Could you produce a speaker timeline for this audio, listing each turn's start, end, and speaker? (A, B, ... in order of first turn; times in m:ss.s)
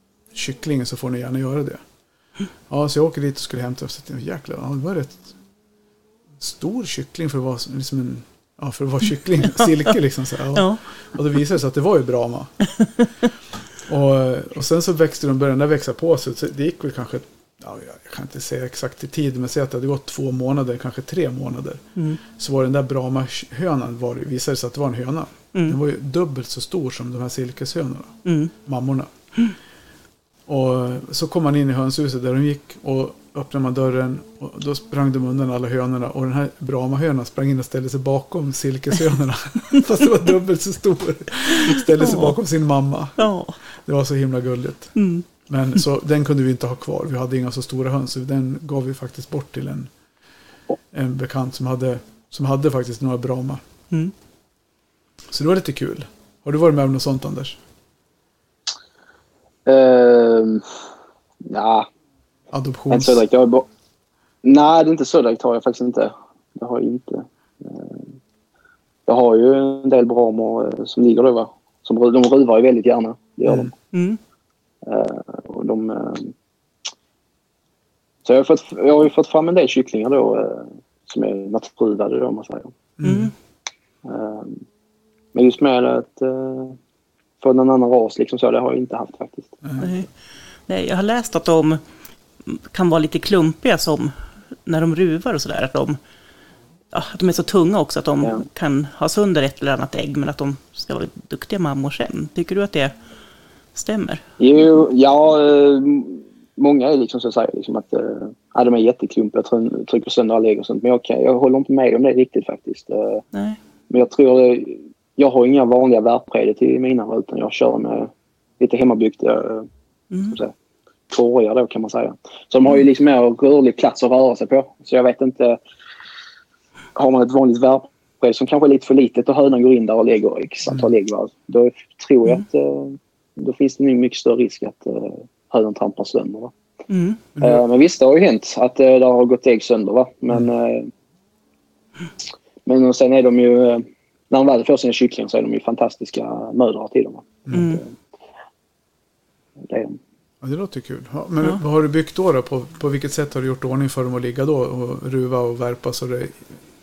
0:00.3-0:01.8 A
0:02.7-0:05.3 A
0:06.4-0:12.5 A
0:10.5-0:10.8 B
0:13.8-0:29.1 A
0:28.2-0:28.5 B
0:30.5-0:43.3 A
0:42.0-0:42.3 B
0:43.2-0:43.6 B
0:43.8-0:44.9 A
0:45.0-0:45.2 B
0:45.5-0:49.9 A
0:50.9-0:53.6 A
0:55.3-0:57.6 A
0:59.6-1:00.6 C
1:01.4-1:01.9 C
1:02.5-1:03.2 A
1:02.9-1:03.6 C
1:04.4-1:08.0 C
1:09.1-1:13.7 C
1:13.9-1:14.2 B
1:14.8-1:16.3 C
1:18.2-1:22.7 C
1:23.0-1:23.3 A
1:23.0-1:23.3 B
1:24.0-1:24.6 C
1:25.3-1:26.8 C
1:27.4-1:29.6 C
1:29.6-1:29.9 A
1:29.8-1:30.1 B
1:30.7-1:31.8 B
1:32.4-1:36.0 B
1:36.9-1:42.9 B
1:43.7-1:44.2 B
1:44.4-1:53.2 C
1:53.3-1:53.6 B
1:53.9-1:59.7 C
2:00.3-2:00.5 C
2:01.1-2:05.6 C
2:06.9-2:16.5 C
2:16.9-2:17.2 B
2:17.4-2:17.6 A
2:17.4-2:20.9 C
2:22.6-2:27.9 C
2:27.5-2:27.8 B
2:29.6-2:30.0 C
2:30.4-2:36.4 A